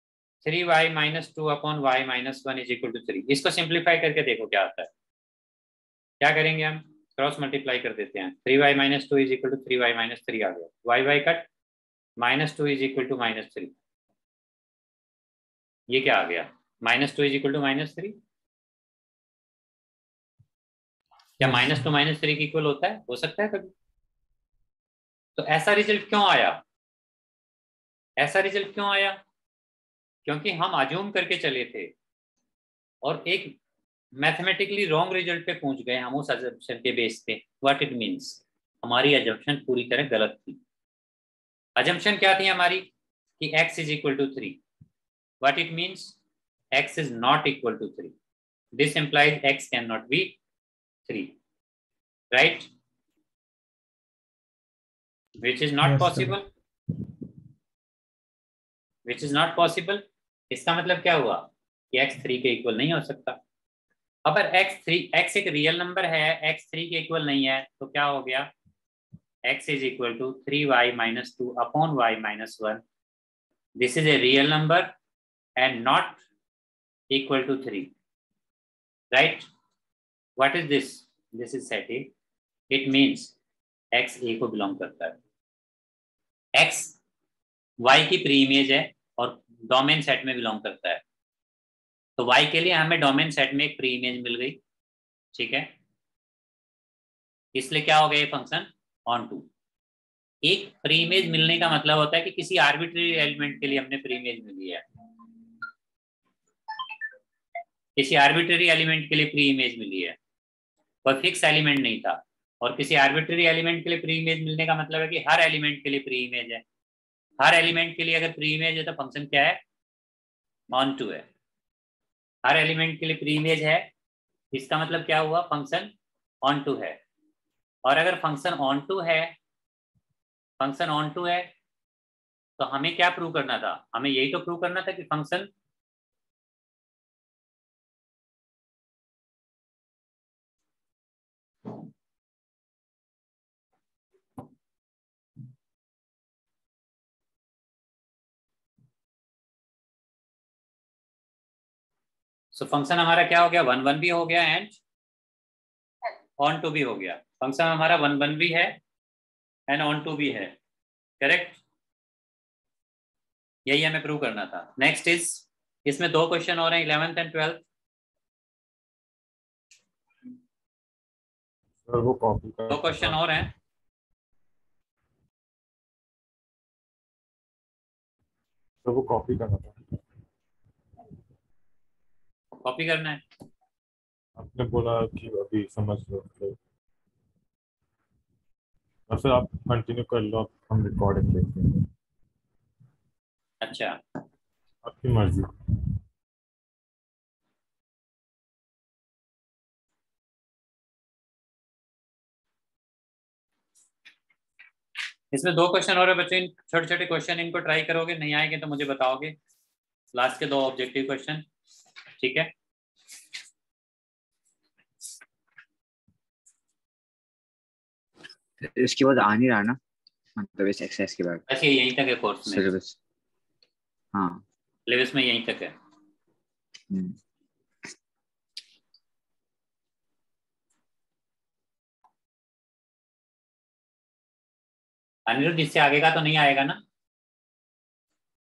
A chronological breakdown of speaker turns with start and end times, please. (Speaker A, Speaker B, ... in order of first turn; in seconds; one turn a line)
Speaker A: 0.4-4.9
Speaker A: 6.2-11.5
Speaker A: 12.2-13.7
Speaker A: 15.9-18.2
Speaker A: 21.4-23.7
Speaker A: 25.4-26.6
Speaker A: 28.2-29.2
Speaker A: 30.2-31.9
Speaker A: 33.0-33.6
Speaker A: 34.2-40.6
Speaker A: 41.8-44.6
Speaker A: 45.4-46.2
Speaker A: 46.7-48.1
Speaker A: 48.8-50.4
Speaker A: 51.1-51.4
Speaker A: 52.3-52.7
Speaker A: 55.4-56.5
Speaker A: 59.1-63.4
Speaker A: 64.2-68.5
Speaker A: 69.5-72.8
Speaker A: 73.8-74.9
Speaker A: 75.6-76.2
Speaker A: 77.1-77.9
Speaker A: 79.1-79.5
Speaker A: 80.4-82.1
Speaker A: 82.7-83.3
Speaker A: 83.9-85.2
Speaker A: 86.6-87.0
Speaker A: 87.8-91.0
Speaker A: 92.2-94.6
Speaker A: 95.3-95.7
Speaker A: 97.5-99.5
Speaker A: 100.4-104.8
Speaker A: 108.0-110.2
Speaker A: 111.0-116.6
Speaker A: 117.4-119.6
Speaker A: 120.7-121.3
Speaker A: 122.4-123.9
Speaker A: 124.5-125.9
Speaker A: 126.4-127.0
Speaker A: 127.8-129.3
Speaker A: 130.6-131.5
Speaker A: 132.6-135.5
Speaker A: 152.5-154.8
Speaker A: 156.4-158.8
Speaker A: 159.7-160.6
Speaker A: 161.2-161.6
Speaker A: 163.7-167.7
Speaker B: 171.8-173.2
Speaker A: 172.7-173.5
Speaker B: 178.8-179.8
Speaker A: 182.6-183.2
Speaker B: 184.4-186.6
Speaker B: 189.1-191.9
Speaker A: 193.6-194.0
Speaker B: 194.8-195.5
Speaker A: 205.3-209.3
Speaker A: 210.1-211.4
Speaker A: 212.2-212.5
Speaker C: 218.9-219.8
Speaker C: 220.4-221.4
Speaker A: 221.5-222.7
Speaker C: 222.5-222.9
Speaker C: 224.1-224.4
Speaker A: 224.9-225.8
Speaker A: 235.3-236.8